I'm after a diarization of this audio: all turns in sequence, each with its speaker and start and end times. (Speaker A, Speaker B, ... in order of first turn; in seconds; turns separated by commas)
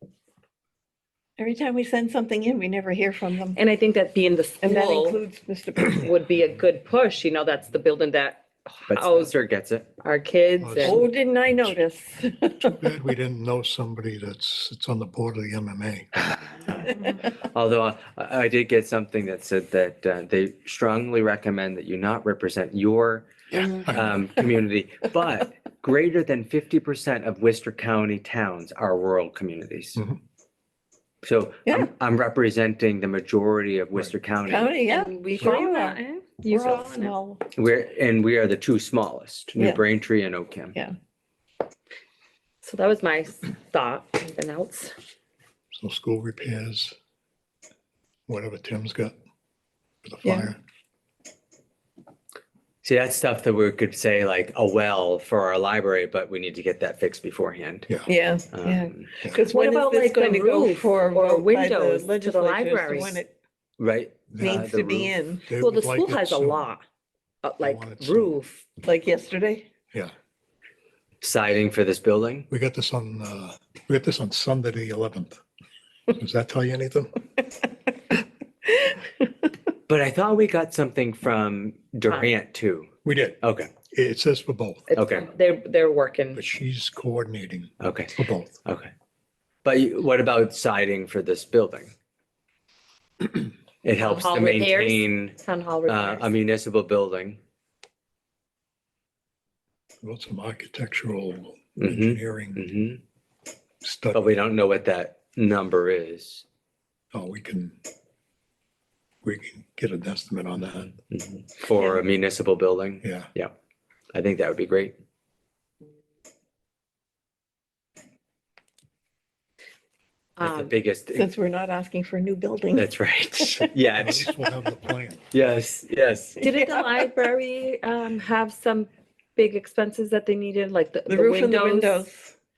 Speaker A: 1.4-3.6, Speaker B: 3.5-5.2, Speaker A: 4.6-6.2, Speaker B: 5.9-9.3, Speaker C: 8.9-9.9, Speaker B: 10.0-11.0, Speaker D: 10.6-11.1, Speaker A: 10.8-12.8, Speaker D: 12.7-16.1, Speaker C: 16.3-30.0, Speaker D: 23.6-24.2, Speaker C: 31.2-34.7, Speaker A: 34.5-37.4, Speaker B: 34.8-37.1, Speaker C: 37.5-40.8, Speaker B: 42.6-44.9, Speaker D: 45.7-46.9, Speaker D: 48.3-49.1, Speaker D: 50.0-50.6, Speaker A: 50.2-50.5, Speaker C: 52.8-57.9, Speaker A: 58.1-63.3, Speaker C: 58.5-59.1, Speaker B: 59.5-63.2, Speaker C: 63.8-65.1, Speaker D: 64.3-64.7, Speaker A: 64.4-65.5, Speaker D: 65.5-66.6, Speaker B: 65.6-66.8, Speaker B: 67.4-68.6, Speaker D: 67.6-68.3, Speaker A: 68.8-69.7, Speaker C: 71.2-72.5, Speaker D: 72.5-75.4, Speaker D: 76.1-77.1, Speaker C: 79.9-83.7, Speaker D: 83.0-84.9, Speaker B: 84.9-86.4, Speaker C: 84.9-85.3, Speaker D: 86.3-88.5, Speaker C: 87.8-88.9, Speaker C: 89.6-91.9, Speaker C: 93.8-97.4, Speaker B: 94.0-96.3, Speaker D: 100.0-102.6, Speaker C: 101.8-103.0, Speaker D: 103.8-104.2, Speaker C: 104.1-106.4, Speaker D: 107.1-107.8, Speaker D: 109.2-111.0, Speaker C: 111.1-113.5, Speaker D: 113.0-113.3, Speaker C: 114.1-115.0, Speaker C: 120.4-121.3, Speaker B: 120.4-120.7, Speaker A: 121.1-122.9, Speaker C: 122.7-124.3, Speaker D: 124.0-125.2, Speaker C: 125.3-126.4, Speaker A: 126.4-127.2, Speaker B: 126.4-132.0, Speaker A: 131.1-132.3